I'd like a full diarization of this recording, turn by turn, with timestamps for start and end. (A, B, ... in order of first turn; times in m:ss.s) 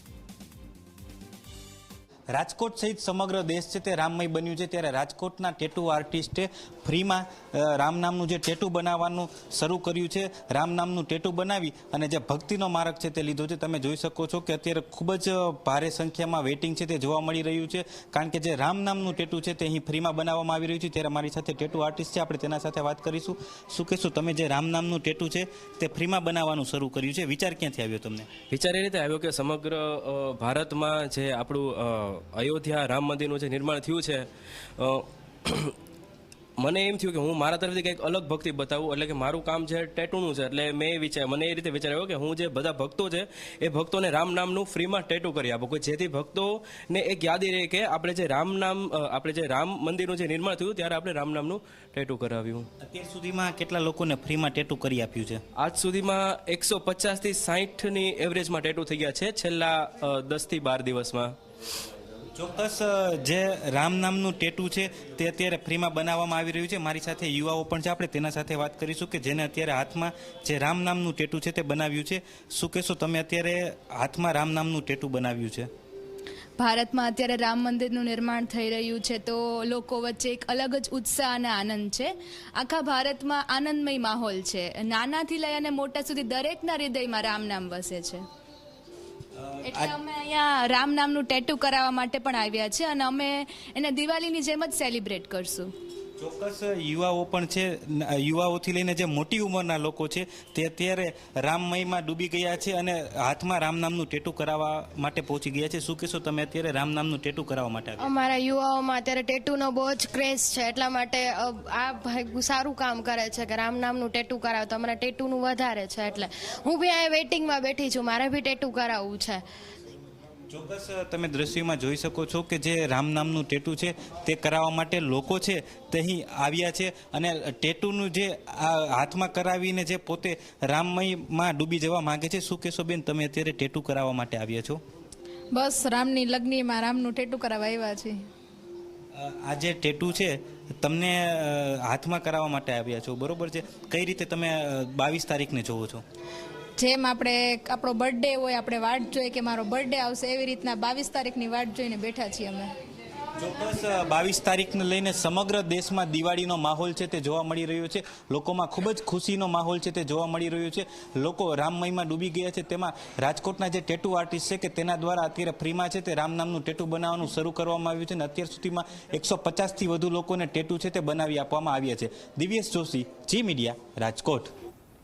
0:02.3-0:28.3 A
0:28.5-0:34.3 B
0:34.8-0:35.8 B
0:36.6-0:52.7 B
0:52.8-0:55.4 A
0:55.6-1:01.4 B
1:02.4-1:15.7 A
1:16.6-1:28.2 C
1:29.4-1:30.0 A
1:29.6-1:35.7 C
1:36.2-1:48.1 A
1:48.0-1:59.4 D
2:00.5-2:14.8 A
2:15.5-2:18.2 E
2:19.1-2:26.0 A
2:26.8-2:32.7 E
2:33.4-2:54.5 A